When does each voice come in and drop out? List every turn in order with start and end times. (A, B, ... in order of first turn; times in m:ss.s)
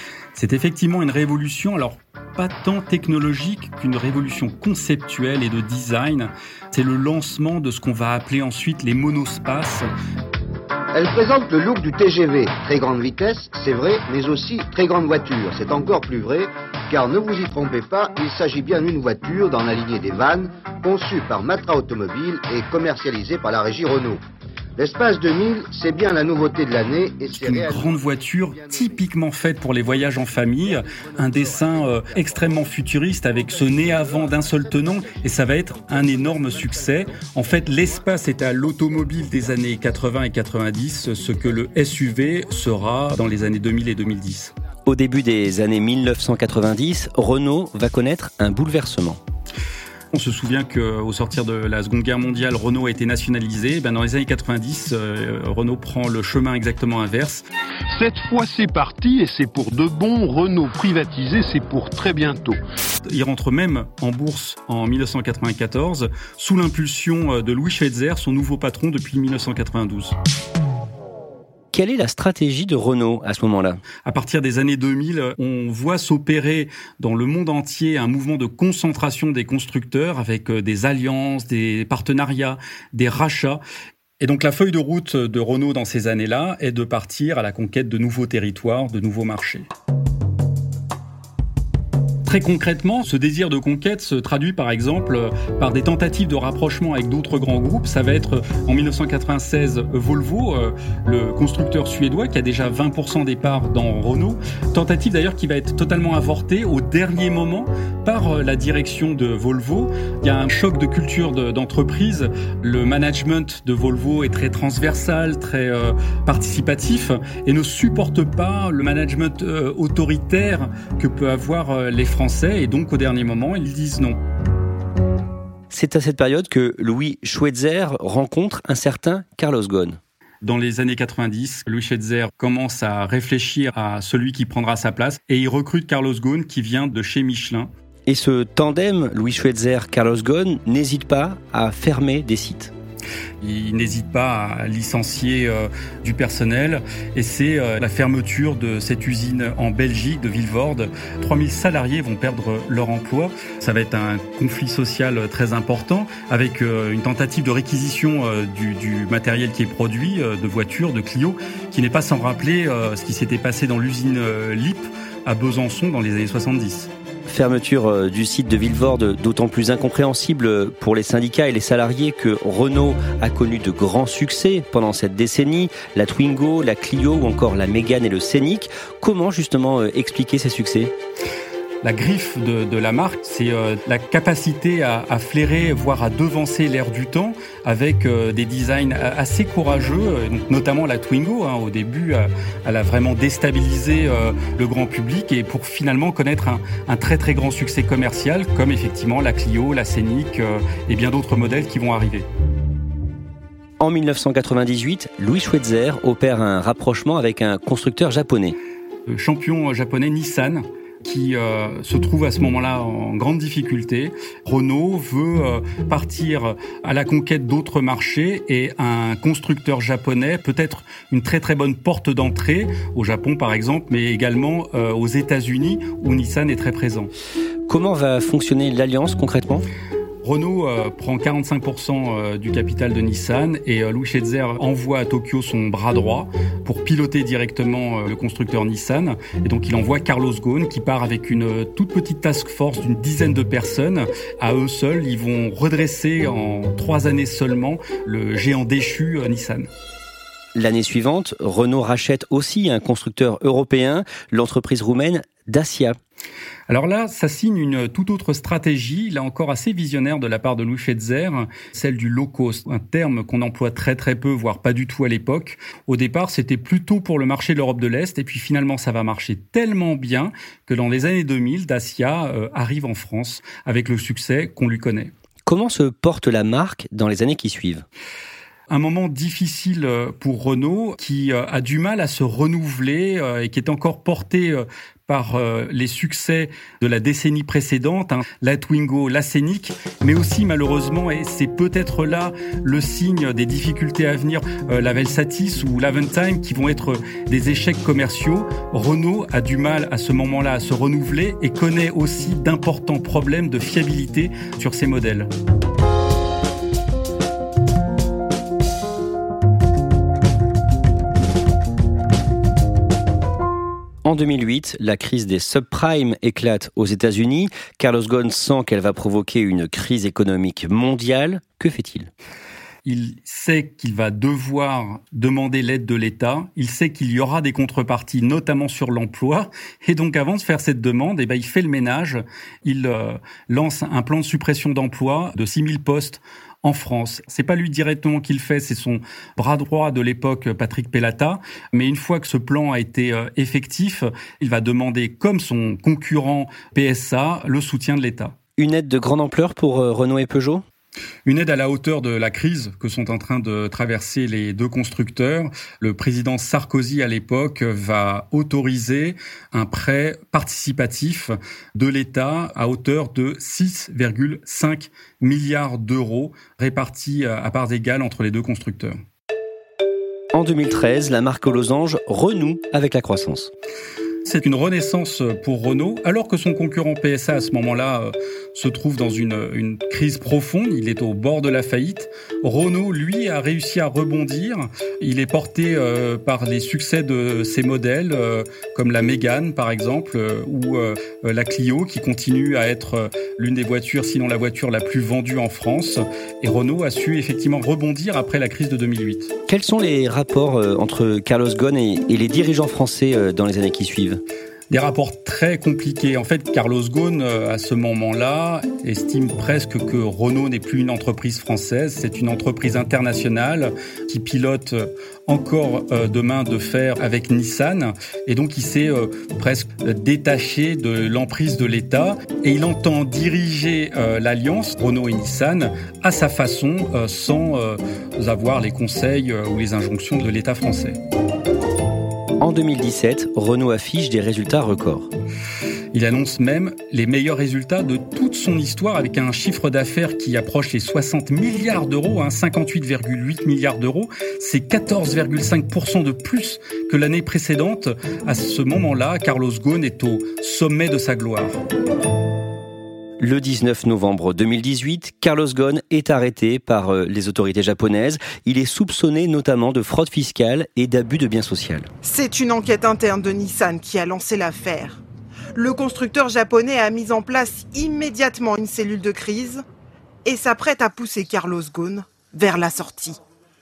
0:00.3-0:09.8 A
0:10.9-0:24.2 B
0:24.8-0:28.0 B
0:27.3-0:44.5 A
0:28.6-0:29.0 B
0:30.9-0:31.5 B
0:44.8-0:49.2 C
0:50.1-0:57.4 A
0:57.9-1:02.6 D
1:03.1-1:10.1 A
1:11.7-1:13.8 C
1:14.0-1:23.6 A
1:24.2-1:29.7 A
1:32.2-2:04.2 A
2:05.7-2:10.0 C
2:10.4-2:17.7 A
2:18.1-2:22.7 C
2:23.4-2:46.9 A
2:47.3-3:00.9 C
3:01.8-3:22.3 A
3:23.8-3:28.6 C
3:29.1-3:47.1 A
3:47.7-3:49.6 C
3:50.2-4:09.7 A
4:10.5-4:16.0 C
4:16.7-4:35.1 A
4:35.4-4:37.8 C
4:38.7-5:05.3 A
5:14.0-5:22.1 C
5:22.8-5:48.4 A
5:48.6-5:50.6 C
5:51.2-6:09.0 A
6:10.3-6:13.5 C
6:14.2-6:39.3 A
6:39.5-6:44.2 C
6:44.7-7:11.0 A
7:12.4-7:15.1 C
7:15.9-7:31.6 A
7:33.2-7:41.9 C
7:42.0-7:45.0 E
7:45.5-7:49.6 E
7:50.2-7:53.2 E